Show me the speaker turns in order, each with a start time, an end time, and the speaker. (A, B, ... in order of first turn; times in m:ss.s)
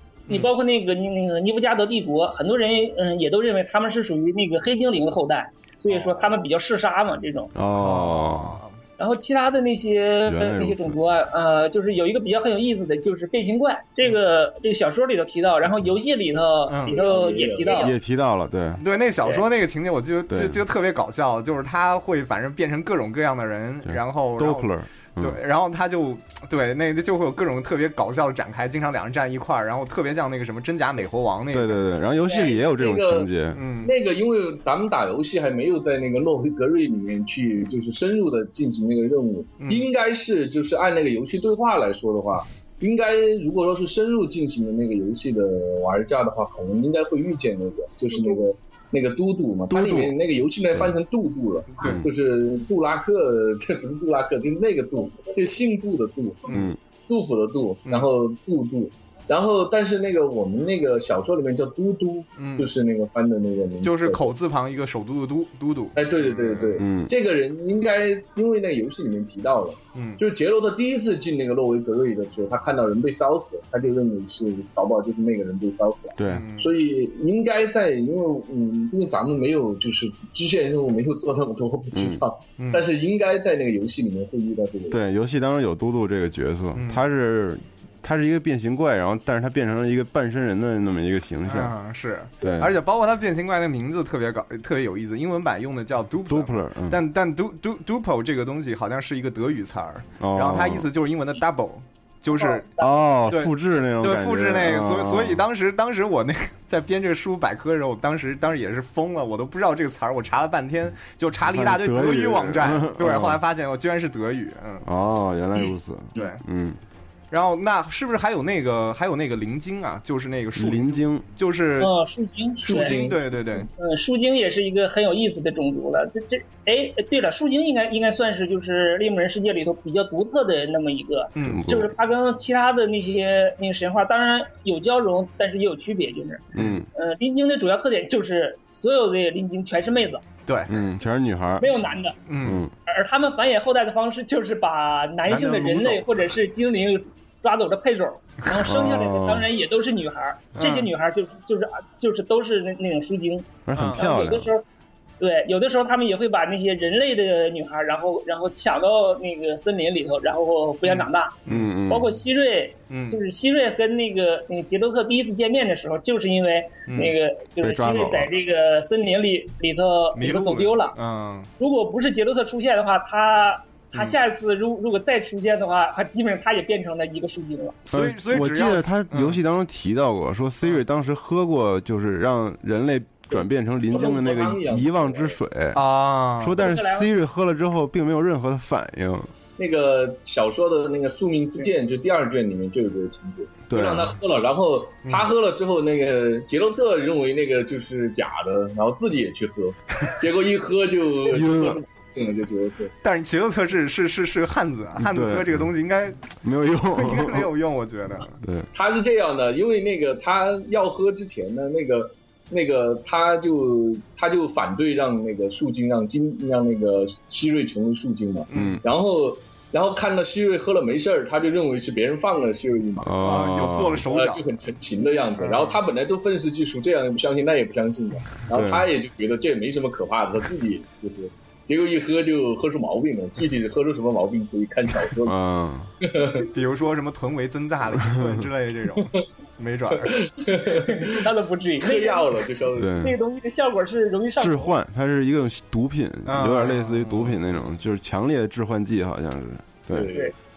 0:00.3-0:00.5 A
0:00.3-0:07.5 B
0:05.9-0:06.4 A
0:07.5-0:08.6 C
0:07.7-0:08.8 A
0:09.0-0:17.9 B
0:10.2-0:11.0 C
0:16.7-0:17.0 A
0:16.9-0:17.9 D
0:17.6-0:18.8 C
0:18.8-0:32.0 A
0:20.3-0:20.6 C
0:23.8-0:25.4 C
0:31.5-0:33.6 C
0:32.3-0:33.3 D
0:33.5-0:33.9 A
0:33.8-1:04.3 D
0:39.6-0:39.9 A
0:49.7-0:50.2 C
0:51.8-0:52.1 A
0:51.8-0:52.1 C
0:56.5-0:56.7 A
0:56.5-0:56.8 C
1:02.4-1:02.7 A
1:03.8-1:06.8 A
1:06.0-1:25.0 D
1:06.8-1:07.1 C
1:09.9-1:10.2 A
1:16.2-1:16.4 C
1:16.3-1:16.7 A
1:21.9-1:22.2 C
1:22.6-1:22.8 A
1:24.9-1:31.7 C
1:26.7-1:27.0 A
1:31.4-1:42.7 A
1:32.4-1:32.7 C
1:36.3-1:37.0 C
1:40.2-1:40.9 C
1:42.3-1:43.0 B
1:42.8-1:45.4 C
1:43.3-1:54.8 A
1:51.4-1:53.4 C
1:54.8-1:56.8 C
1:56.1-1:56.4 A
1:57.3-2:01.9 A
2:00.6-2:01.2 C
2:01.8-2:03.0 B
2:02.6-2:03.7 D
2:02.7-2:03.7 A
2:03.8-2:20.2 B
2:11.4-2:11.6 A
2:11.4-2:11.9 C
2:16.5-2:16.9 C
2:16.5-2:16.8 A
2:20.4-2:20.7 A
2:20.7-2:21.7 C
2:21.6-2:22.2 B
2:22.3-2:22.6 A
2:22.4-2:22.7 C
2:22.9-2:34.6 B
2:25.3-2:26.1 A
2:28.6-2:29.5 C
2:30.6-2:30.9 A
2:33.6-2:34.5 C
2:33.7-2:34.1 A
2:35.2-2:41.4 B
2:40.8-2:41.7 A
2:41.5-2:42.2 C
2:41.9-2:51.0 B
2:42.9-2:43.2 A
2:46.9-2:47.1 A
2:47.6-2:48.3 C
2:50.1-2:51.5 A
2:51.6-2:57.8 B
2:57.9-3:05.8 C
2:57.9-2:59.4 A
3:03.3-3:05.4 D
3:05.7-3:06.6 A
3:06.4-3:09.3 C
3:06.6-3:07.1 B
3:09.6-3:22.9 D
3:13.7-3:14.2 C
3:21.3-3:21.8 C
3:23.0-3:26.4 A
3:25.0-3:25.7 C
3:26.4-3:27.5 C
3:26.9-3:28.4 A
3:28.4-3:28.7 C
3:28.7-3:55.3 D
3:38.5-3:38.8 A
3:38.5-3:38.8 C
3:43.0-3:44.1 C
3:43.2-3:44.4 A
3:45.4-3:45.8 A
3:48.5-3:48.9 C
3:55.2-3:55.9 C
3:56.0-3:56.5 D
3:56.4-4:00.3 A
3:58.0-3:58.4 C
3:59.9-4:01.2 D
4:00.7-4:02.2 B
4:01.8-4:03.0 D
4:02.7-4:03.1 C
4:03.0-4:04.7 B
4:04.4-4:10.1 C
4:06.3-4:07.5 A
4:09.9-4:10.3 D